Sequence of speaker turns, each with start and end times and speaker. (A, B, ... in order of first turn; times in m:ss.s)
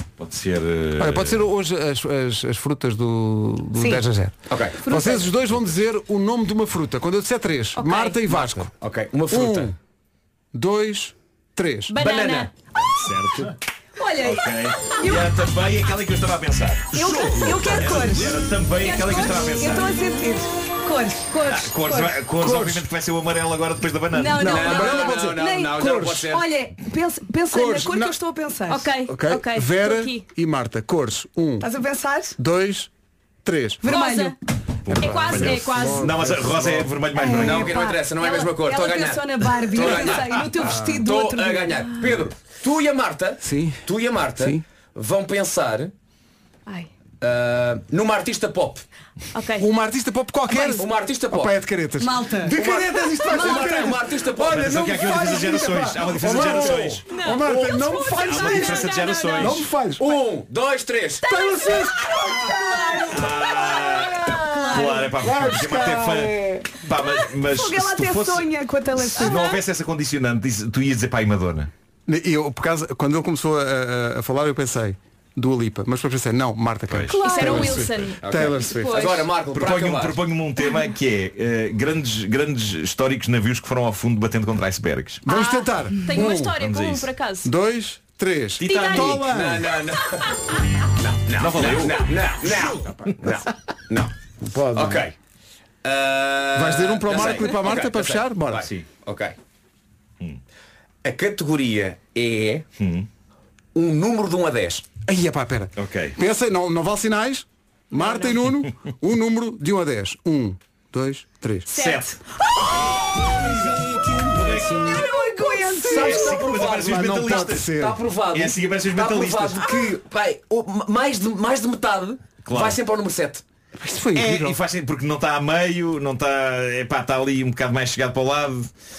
0:00.2-0:01.4 A
0:01.0-0:08.7 B
0:03.8-0:04.0 C
0:04.5-0:04.8 D
0:04.9-0:05.2 C
0:05.4-0:05.8 A
0:07.8-0:08.2 E
0:08.3-0:09.7 D
0:09.3-0:09.7 B
0:10.5-0:11.9 B
0:11.9-0:12.5 E
0:12.0-0:12.5 D
0:12.9-0:13.5 A
0:14.0-0:15.4 C
0:14.2-0:19.9 A
0:16.9-0:22.1 C
0:21.5-0:25.0 A
0:22.4-0:22.8 B
0:24.1-0:25.1 E
0:24.2-0:28.9 C
0:24.4-0:26.5 D
0:24.4-0:26.0 B
0:27.5-0:28.1 B
0:28.7-0:30.2 E
0:29.1-0:31.7 B
0:31.6-0:32.3 C
0:32.4-0:32.9 B
0:33.4-0:34.3 B
0:33.8-0:34.3 C
0:33.9-0:34.3 E
0:34.8-0:37.9 A
0:34.9-0:37.0 B
0:35.0-0:36.1 E
0:37.1-0:41.9 C
0:37.3-0:45.9 D
0:38.2-0:39.2 E
0:43.4-0:43.8 B
0:44.4-0:44.6 B
0:47.2-0:48.8 D
0:49.3-0:49.7 E
0:49.6-1:00.1 B
0:50.5-0:51.5 D
0:52.0-0:52.6 C
0:52.5-0:55.4 D
0:53.3-0:53.7 C
0:54.4-0:57.0 A
0:57.0-0:59.6 E
0:57.4-0:57.8 D
0:58.1-0:59.6 A
1:00.0-1:01.2 D
1:01.2-1:01.9 E
1:01.2-1:03.3 B
1:02.2-1:03.3 C
1:03.1-1:08.5 A
1:04.3-1:05.1 C
1:05.2-1:06.8 B
1:07.4-1:09.6 C
1:09.0-1:11.7 A
1:09.2-1:09.6 E
1:12.1-1:19.2 B
1:16.9-1:17.9 A
1:17.1-1:19.3 E
1:17.2-1:17.6 C
1:18.2-1:20.2 D
1:19.5-1:25.2 A
1:25.2-1:26.6 B
1:25.2-1:27.5 E
1:26.5-1:27.1 A
1:27.4-1:29.7 B
1:28.6-1:29.5 A
1:28.7-1:29.0 E
1:29.0-1:34.1 D
1:31.4-1:32.2 A
1:34.4-1:35.1 B
1:34.7-1:35.1 D
1:35.8-1:39.4 D
1:36.5-1:38.6 B
1:37.1-1:37.5 A
1:38.6-1:38.8 A
1:41.0-1:42.6 D
1:42.8-1:43.1 A
1:43.7-1:44.8 D
1:45.0-1:51.7 B
1:45.8-1:46.2 A
1:51.7-1:52.1 E
1:51.7-1:52.2 A
1:53.4-1:53.8 A
1:53.5-1:55.0 D
1:54.3-1:54.9 A
1:54.9-1:56.2 C
1:55.5-1:58.0 B
1:55.8-2:03.4 D
1:55.9-1:57.8 A
1:58.3-1:59.8 A
2:02.4-2:02.8 A
2:03.8-2:04.6 B
2:04.1-2:08.7 A